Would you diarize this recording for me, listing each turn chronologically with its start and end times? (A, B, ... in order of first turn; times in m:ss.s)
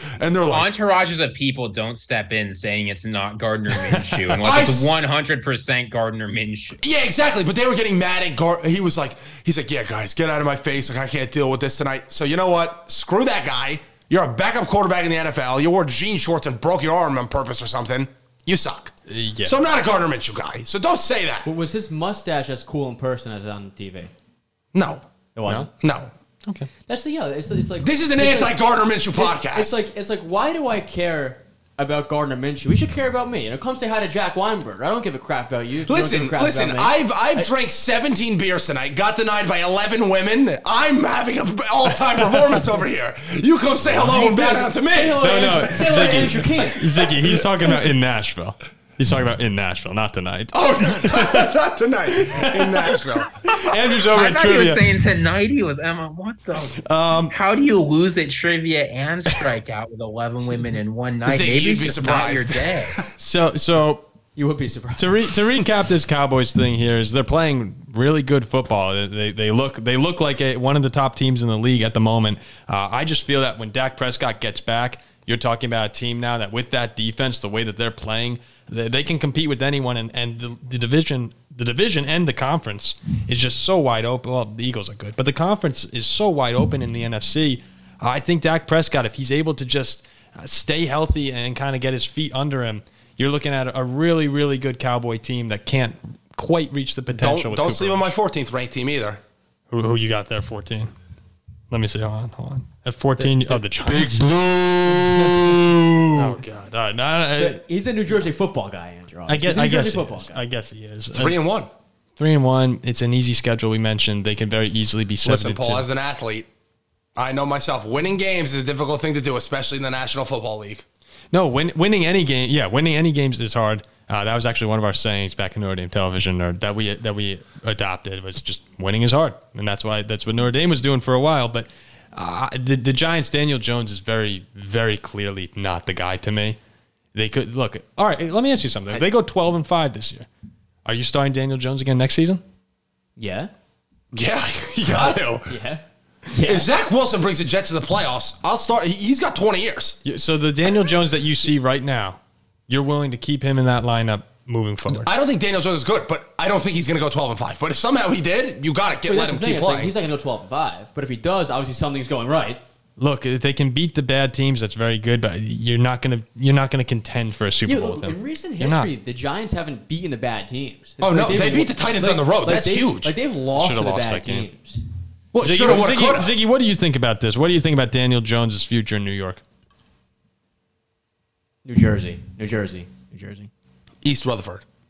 0:00.2-0:00.7 A
0:00.5-0:06.8 B
0:03.8-0:04.4 C
0:04.4-0:05.1 A
0:06.8-0:21.5 A
0:19.1-0:19.6 C
0:21.4-0:24.1 D
0:24.7-0:25.0 A
0:25.4-0:25.7 D
0:25.8-0:26.1 A
0:26.9-0:28.6 D
0:27.8-0:29.7 A
0:29.1-0:37.5 D
0:35.8-0:46.0 A
0:44.0-0:46.9 D
0:45.2-0:51.5 C
0:46.9-0:47.7 A
0:50.5-0:53.3 A
0:52.1-0:54.8 C
0:54.0-1:03.0 B
0:56.8-0:57.3 C
1:01.2-1:02.9 A
1:03.1-1:04.1 C
1:04.4-1:05.4 D
1:05.0-1:38.1 C
1:37.1-1:39.2 A
1:39.7-1:40.9 C
1:41.7-1:44.3 C
1:43.2-1:43.6 D
1:45.6-1:46.4 A
1:46.1-1:47.6 C
1:47.4-1:50.4 D
1:49.3-1:51.4 C
1:51.1-1:51.7 A
1:52.2-1:55.8 C
1:55.2-1:56.5 A
1:57.2-2:00.8 A
2:01.3-2:16.6 C
2:17.1-2:20.3 C
2:20.8-2:22.4 C
2:23.2-2:23.5 D
2:24.1-2:25.6 A
2:25.4-2:26.7 D
2:26.4-2:30.0 A
2:30.0-2:35.1 C
2:34.9-2:39.9 A
2:39.1-2:42.6 D
2:43.0-2:48.9 C
2:47.7-2:54.8 D
2:51.0-2:53.1 A
2:53.6-2:54.5 C
2:55.3-2:56.4 A
2:55.4-2:59.4 C
3:01.6-3:03.5 D
3:04.0-3:04.6 A